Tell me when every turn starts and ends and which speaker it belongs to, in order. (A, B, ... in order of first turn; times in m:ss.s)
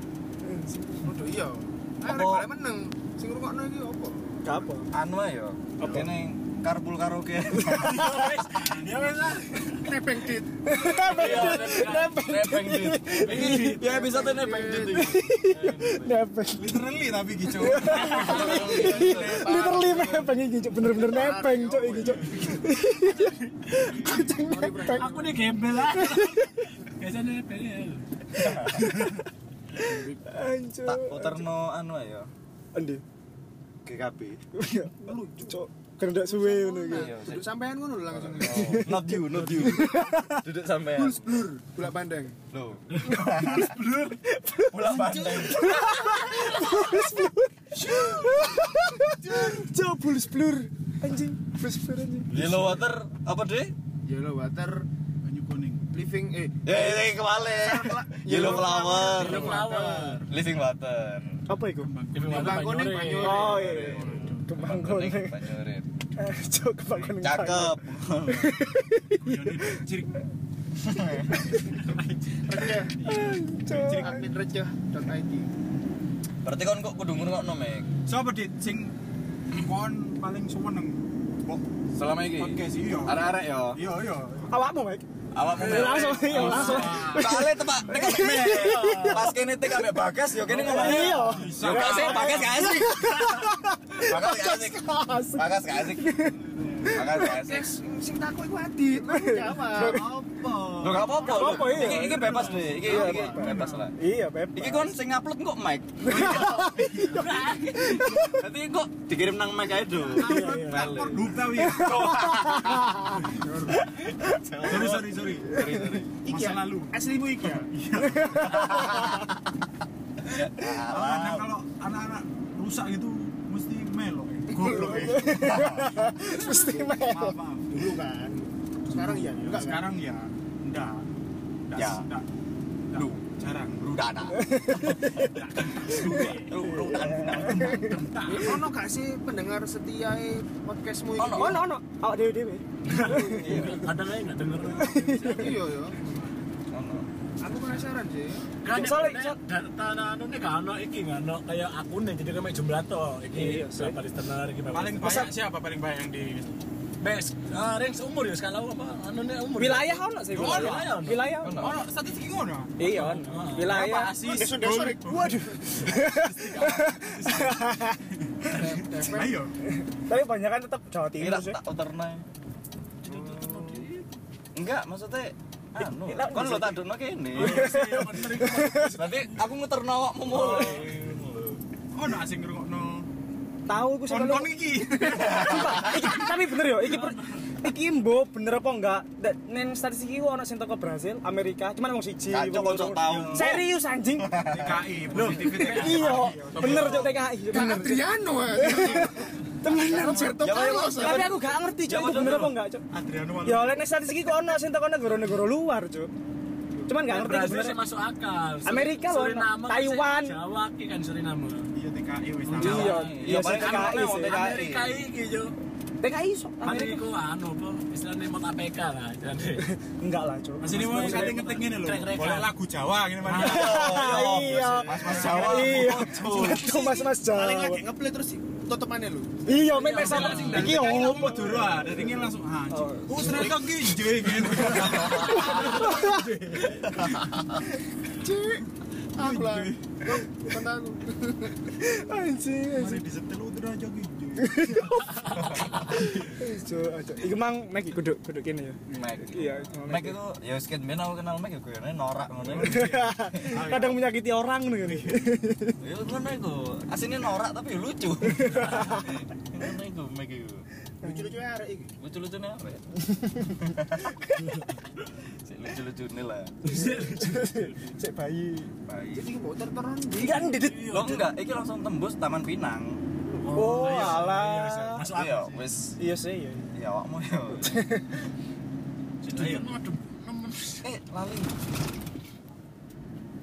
0:00.4-0:01.1 A
0:01.0-0:04.7 B
0:02.0-0:02.5 C
0:04.4-0:04.9 A
0:04.9-0:08.5 C
0:05.8-0:06.1 A
0:07.8-0:09.9 D
0:09.8-0:10.8 B
0:10.6-0:13.9 A
0:10.8-0:12.4 D
0:12.2-0:15.5 C
0:13.2-0:13.8 D
0:13.8-0:15.2 B
0:14.9-0:16.8 A
0:15.4-0:20.0 E
0:17.6-0:25.2 A
0:18.0-0:19.5 C
0:18.3-0:23.2 B
0:23.9-0:25.5 B
0:24.9-0:28.0 D
0:25.9-0:26.4 A
0:28.4-0:29.1 A
0:28.4-0:28.9 C
0:29.8-0:30.2 B
0:29.8-0:31.5 A
0:30.9-0:32.3 C
0:32.7-0:33.0 A
0:33.8-0:34.4 C
0:34.6-0:37.2 A
0:34.8-0:35.6 B
0:36.2-0:38.9 B
0:36.9-0:37.5 C
0:38.1-0:41.4 C
0:38.5-0:40.4 A
0:40.9-0:42.4 B
0:42.5-0:43.8 C
0:42.9-0:44.2 D
0:43.2-0:44.2 E
0:43.2-0:43.6 A
0:44.3-0:52.4 A
0:44.7-0:46.4 C
0:44.8-0:45.4 E
0:47.7-0:49.7 E
0:52.3-0:52.8 E
0:52.3-0:53.7 C
0:54.0-0:54.9 B
0:55.2-0:55.8 E
0:55.9-1:00.3 B
0:56.6-0:59.7 C
0:59.1-1:00.2 D
1:00.3-1:01.4 C
1:01.5-1:02.0 A
1:01.7-1:02.9 E
1:02.1-1:03.6 D
1:02.2-1:04.3 B
1:03.2-1:05.4 A
1:03.6-1:04.5 E
1:03.8-1:05.9 C
1:06.2-1:09.8 A
1:07.2-1:08.6 C
1:09.2-1:10.2 E
1:10.8-1:11.3 C
1:11.4-1:11.8 A
1:11.6-1:14.2 E
1:12.5-1:13.0 B
1:13.0-1:14.2 A
1:13.9-1:15.5 B
1:16.4-1:17.9 C
1:18.0-1:18.9 E
1:19.5-1:21.6 E
1:22.0-1:23.8 C
1:22.4-1:24.6 E
1:24.5-1:25.0 A
1:25.3-1:36.2 C
1:25.4-1:29.0 E
1:25.5-1:29.8 A
1:28.5-1:29.2 D
1:30.5-1:37.4 A
1:30.5-1:32.8 E
1:36.2-1:37.0 E
1:36.9-1:37.7 C
1:37.2-1:40.1 B
1:39.1-1:40.0 A
1:39.7-1:43.9 E
1:40.8-1:44.0 C
1:41.2-1:44.9 A
1:41.3-1:41.6 B
1:41.8-1:42.8 D
1:44.5-1:46.4 C
1:46.0-1:47.4 E
1:46.0-1:48.4 A
1:46.9-1:48.1 D
1:48.2-1:51.4 C
1:50.1-1:53.4 E
1:50.2-1:50.9 A
1:51.5-1:53.0 A
1:52.0-1:52.8 C
1:53.3-1:53.8 B
1:54.2-1:56.2 C
1:54.6-1:55.7 E
1:56.2-1:57.0 E
1:56.2-1:57.7 B
1:57.6-1:59.3 E
1:58.3-1:58.5 A
1:58.5-1:59.3 C
2:00.3-2:01.5 C
2:00.8-2:07.9 E
2:04.8-2:07.4 A
2:04.8-2:05.2 B
2:07.7-2:09.9 B
2:08.9-2:11.0 E
2:11.7-2:12.2 E
2:11.8-2:12.0 C
2:12.9-2:14.2 E
2:12.9-2:13.2 C
2:13.9-2:17.8 C
2:14.4-2:18.0 A
2:15.5-2:18.6 E
2:16.0-2:16.4 D
2:18.2-2:21.7 B
2:21.2-2:21.6 C
2:21.3-2:23.8 A
2:22.9-2:25.5 D
2:22.9-2:23.6 B
2:23.2-2:23.9 C
2:24.6-2:25.5 A
2:25.2-2:26.2 B
2:26.7-2:27.0 C
2:27.4-2:28.5 B
2:28.6-2:35.1 D
2:28.7-2:29.4 A
2:33.3-2:34.0 A
2:34.7-2:36.6 E
2:35.0-2:35.3 A
2:37.0-2:41.4 D
2:39.6-2:41.8 A
2:40.3-2:41.0 E
2:41.4-2:41.8 C
2:41.5-2:48.3 E
2:42.8-2:44.4 A
2:42.8-2:43.9 D
2:44.2-2:45.8 B
2:45.1-2:48.0 A
2:48.5-2:49.5 B
2:49.1-2:49.5 E
2:50.0-2:51.6 A
2:51.2-2:52.2 C
2:53.1-2:54.0 D
2:54.5-2:57.7 C
2:56.0-2:56.8 A
2:57.3-2:59.3 D
2:57.4-2:59.0 A
2:58.8-3:01.6 C
3:00.3-3:01.0 D
3:00.5-3:00.8 E
3:01.9-3:03.1 E
3:03.7-3:04.6 A
3:04.0-3:06.2 E
3:05.1-3:14.4 A
3:05.3-3:06.1 C
3:06.7-3:07.6 D
3:12.3-3:13.6 C
3:13.0-3:13.6 E
3:14.2-3:14.8 C
3:14.4-3:17.2 E
3:15.1-3:17.1 D
3:15.3-3:22.8 A
3:17.5-3:21.3 B
3:19.9-3:20.4 E
3:20.4-3:22.6 C
3:22.9-3:23.9 E
3:23.4-3:26.1 A
3:26.9-3:27.8 A
3:27.0-3:31.7 D
3:28.6-3:30.4 A
3:31.7-3:33.1 E
3:32.5-3:35.5 D
3:32.5-3:35.0 C
3:32.6-3:34.4 A
3:36.0-3:37.0 A
3:36.6-3:39.6 D
3:40.0-3:41.6 A
3:40.6-3:46.0 E
3:40.9-3:42.5 D
3:43.3-3:46.7 C
3:43.4-3:47.8 A
3:46.1-3:49.5 B
3:49.5-3:51.9 A
3:49.7-3:50.9 D
3:50.0-3:57.4 E
3:52.7-3:53.6 A
3:55.0-3:55.4 C
3:55.2-3:56.3 A
3:56.9-3:57.4 C
3:58.1-4:01.7 B
3:59.2-3:59.8 E
4:01.8-4:03.0 A
4:02.7-4:05.1 E
4:04.4-4:10.2 A
4:08.9-4:09.2 E
4:08.9-4:13.5 C
4:12.4-4:14.0 E
4:12.6-4:15.8 A
4:14.8-4:15.2 E
4:15.8-4:20.6 C
4:18.5-4:19.0 A
4:21.0-4:21.9 B
4:22.0-4:22.9 C
4:23.1-4:23.7 A
4:25.4-4:26.6 C
4:26.6-4:28.0 D
4:26.7-4:28.7 A
4:28.9-4:29.3 C
4:29.1-4:30.6 B
4:30.2-4:31.2 A
4:30.6-4:31.2 D
4:30.8-4:33.0 C
4:33.3-4:35.7 D
4:33.5-4:35.0 A
4:33.5-4:34.5 E
4:35.1-4:36.0 C
4:36.0-4:36.7 A
4:36.7-4:37.8 C
4:37.6-4:38.1 A
4:39.2-4:40.9 D
4:39.2-4:39.8 E
4:40.8-4:41.6 C